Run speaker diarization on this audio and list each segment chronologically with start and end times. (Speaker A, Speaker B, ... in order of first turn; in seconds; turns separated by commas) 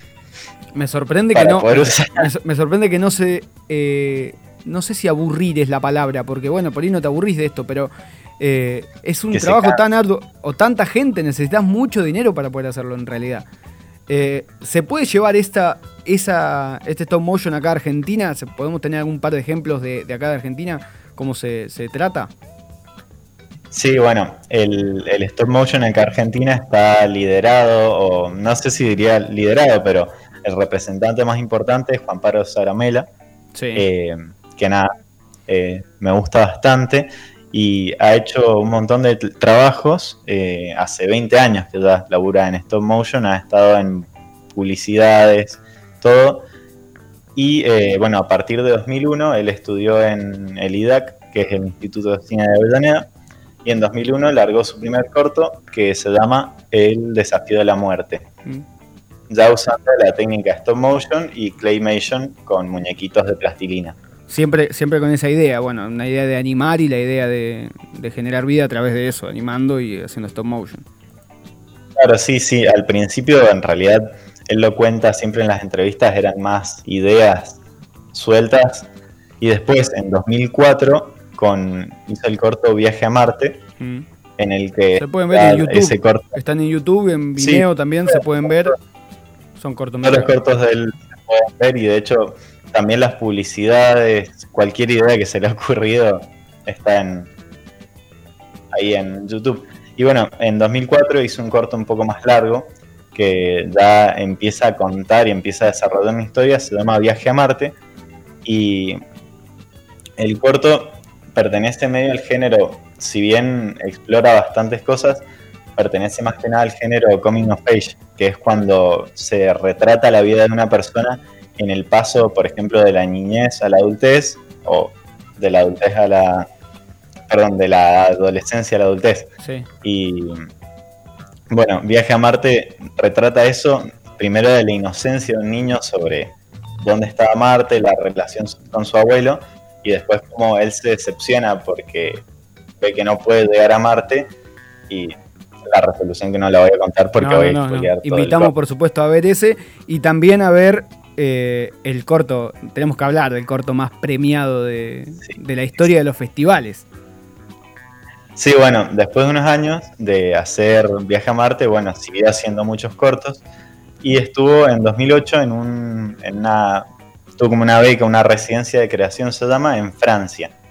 Speaker A: 0.7-13.4, Speaker B: 1.3-2.3, Speaker B: 9.3-9.8, Speaker A: 14.1-22.3, Speaker B: 23.7-33.1, Speaker A: 33.5-33.9, Speaker B: 33.7-34.9, Speaker B: 35.5-46.5, Speaker B: 47.4-53.1, Speaker B: 53.6-58.2, Speaker B: 59.3-64.0, Speaker A: 64.3-70.8, Speaker B: 72.0-77.6, Speaker B: 78.1-78.9, Speaker B: 79.4-83.6, Speaker A: 83.8-84.0, Speaker B: 84.4-86.3, Speaker A: 85.0-88.7, Speaker B: 87.4-88.7, Speaker A: 89.5-90.4, Speaker B: 90.0-97.3, Speaker B: 98.7-107.7, Speaker B: 108.4-109.0, Speaker B: 110.2-115.2, Speaker B: 115.8-126.5, Speaker B: 127.3-129.3, Speaker A: 129.4-129.7, Speaker B: 129.8-130.4, Speaker B: 131.5-142.2, Speaker B: 142.8-144.3, Speaker B: 144.9-145.1, Speaker B: 145.7-148.5, Speaker A: 147.2-156.8, Speaker B: 158.3-163.4, Speaker B: 164.0-170.5